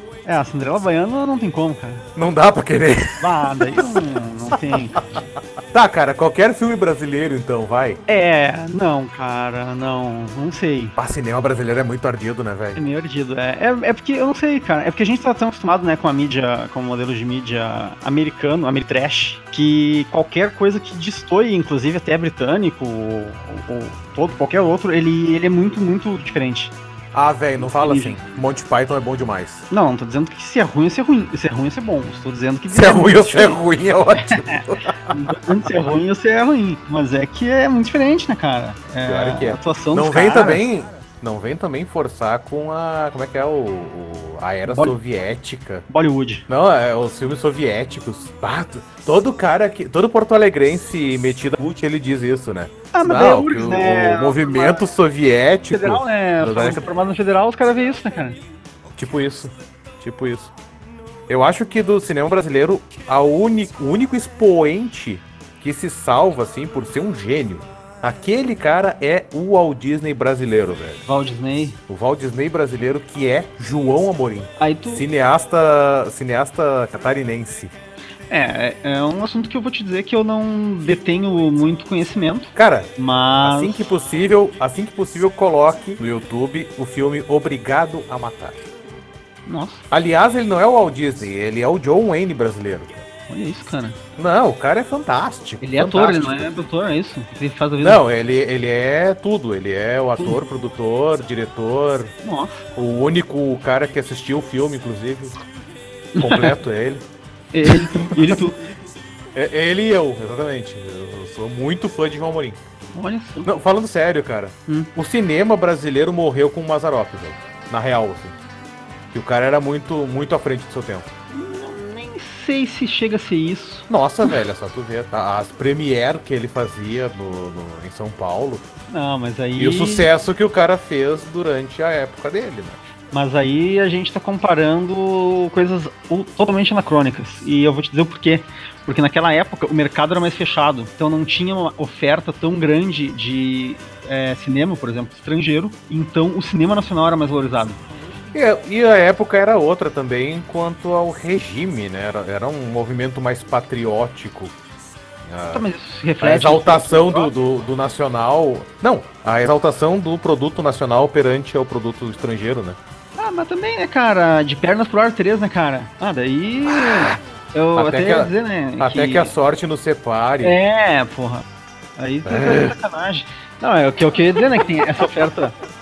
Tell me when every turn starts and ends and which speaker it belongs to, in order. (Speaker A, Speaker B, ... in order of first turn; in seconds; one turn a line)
Speaker A: 0.2-2.0
Speaker B: 2.1-8.0
Speaker A: 3.2-5.0
Speaker A: 8.1-10.9
Speaker B: 11.0-12.8
Speaker A: 12.8-26.7
Speaker B: 27.1-29.6
Speaker A: 27.6-28.2
Speaker A: 29.7-33.6
Speaker B: 32.7-35.2
Speaker A: 34.5-40.7
Speaker B: 39.0-45.9
Speaker A: 44.6-45.0
Speaker A: 45.9-46.5
Speaker B: 46.5-56.9
Speaker A: 52.9-54.8
Speaker A: 55.7-58.4
Speaker B: 58.9-60.5
Speaker B: 61.3-71.0
Speaker A: 71.0-71.8
Speaker B: 71.9-77.7
Speaker A: 74.6-75.0
Speaker A: 78.3-83.9
Speaker B: 82.5-88.6
Speaker A: 89.5-89.8
Speaker B: 89.9-93.0
Speaker A: 93.3-94.0
Speaker B: 94.2-96.5
Speaker A: 95.6-98.0
Speaker B: 97.8-102.1
Speaker A: 100.2-100.5
Speaker A: 102.2-102.7
Speaker B: 102.7-105.4
Speaker A: 106.1-106.6
Speaker B: 106.2-107.1
Speaker A: 107.5-108.6
Speaker B: 107.6-108.4
Speaker B: 109.3-112.6
Speaker A: 112.9-113.5
Speaker B: 113.4-118.4
Speaker B: 119.1-121.1
Speaker A: 121.3-123.9
Speaker B: 123.9-128.7
Speaker A: 128.9-130.1
Speaker B: 129.6-132.8
Speaker A: 133.1-147.8
Speaker B: 148.3-154.6
Speaker B: 155.2-155.6
Speaker A: 155.5-157.3
Speaker B: 156.2-162.8
Speaker A: 163.2-169.3
Speaker B: 167.7-170.6
Speaker A: 170.4-171.4
Speaker A: 172.0-175.6
Speaker B: 172.2-172.7